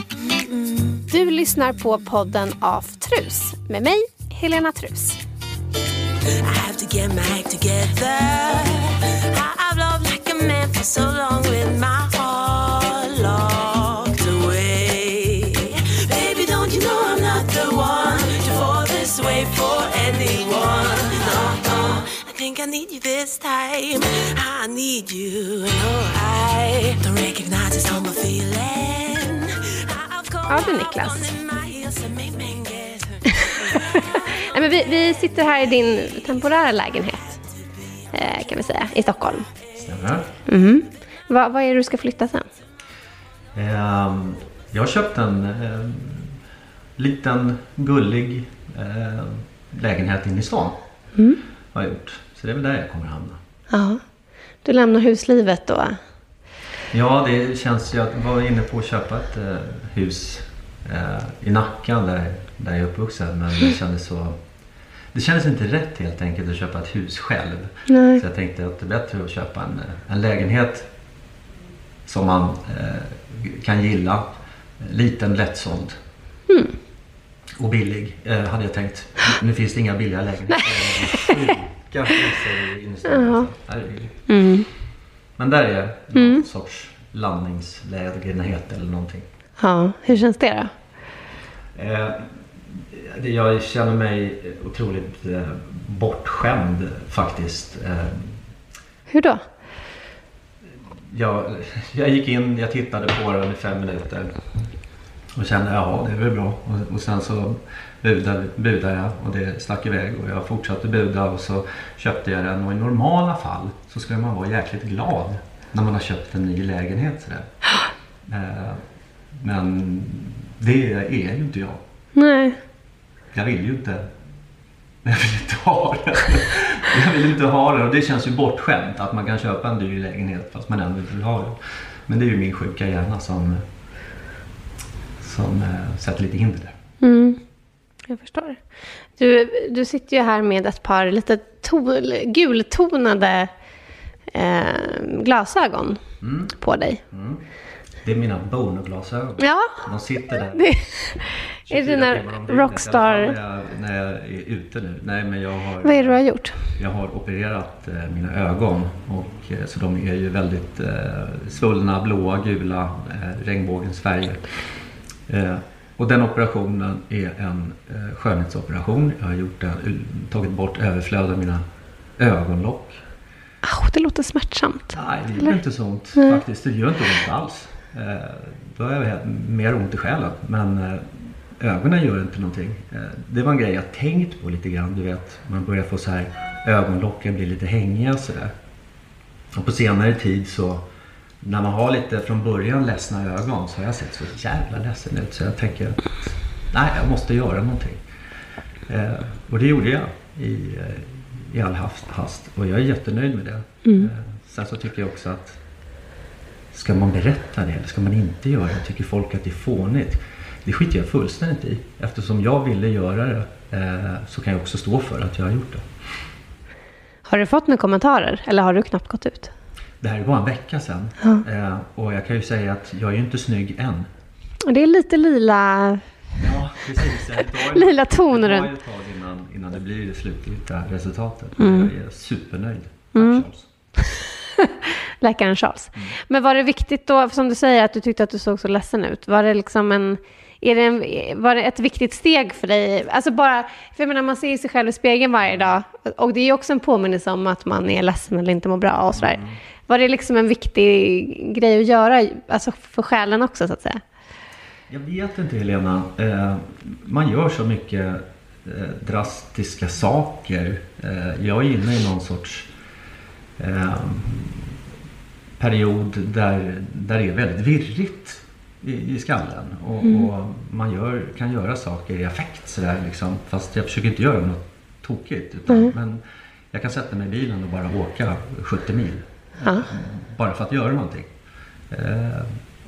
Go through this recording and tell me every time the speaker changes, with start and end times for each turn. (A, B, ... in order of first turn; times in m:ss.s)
0:01.1-0:05.2 A
0:06.4-0:34.1 B
0:30.5-0:31.3 A
0:33.4-0:37.4 A
0:38.1-0:39.5 A
0:39.8-0:40.3 C
0:40.5-0:42.5 A
0:43.5-0:46.4 C
0:47.0-0:50.8 C
0:51.2-0:51.4 A
0:51.7-0:53.4 C
0:53.7-0:54.0 A
0:54.6-0:56.0 A
0:56.9-1:04.4 C
1:05.1-1:10.9 C
1:07.9-1:08.2 A
1:12.0-1:16.0 C
1:16.5-1:16.8 A
1:17.6-1:24.3 C
1:21.1-1:21.5 A
1:23.0-1:23.5 A
1:24.3-1:24.7 A
1:25.4-1:29.2 C
1:26.1-1:26.4 A
1:29.6-1:30.7 A
1:31.7-1:38.4 C
1:39.1-1:39.4 A
1:41.0-1:44.5 C
1:45.3-1:57.5 C
1:58.2-1:58.8 C
1:59.3-2:01.8 C
2:02.1-2:02.6 A
2:03.3-2:04.1 C
2:05.0-2:13.6 C
2:15.2-2:16.8 C
2:17.0-2:17.4 A
2:18.1-2:18.6 A
2:19.2-2:23.5 A
2:24.3-2:26.0 A
2:26.2-2:26.5 C
2:26.6-2:27.0 A
2:27.1-2:27.4 C
2:28.0-2:30.6 C
2:29.4-2:29.8 A
2:30.3-2:33.3 A
2:31.7-2:51.6 C
2:35.8-2:36.6 A
2:52.2-2:53.0 C
2:53.6-2:55.6 A
2:54.9-3:08.5 C
2:56.2-2:56.4 A
3:09.5-3:10.8 C
3:11.4-3:18.0 C
3:18.9-3:25.6 C
3:23.8-3:24.1 A
3:26.7-3:36.1 C
3:37.2-3:39.5 A
3:40.0-3:44.1 C
3:44.6-3:46.1 A
3:46.4-3:53.7 C
3:47.6-3:48.7 A
3:51.6-3:51.9 A
3:53.1-3:53.4 A
3:54.0-4:14.0 A
4:05.4-4:05.7 C
4:09.1-4:09.6 C
4:14.9-4:22.7 C
4:23.6-4:24.7 C
4:25.6-4:41.3 C
4:30.0-4:30.3 A
4:39.6-4:39.9 A
4:41.9-4:42.6 C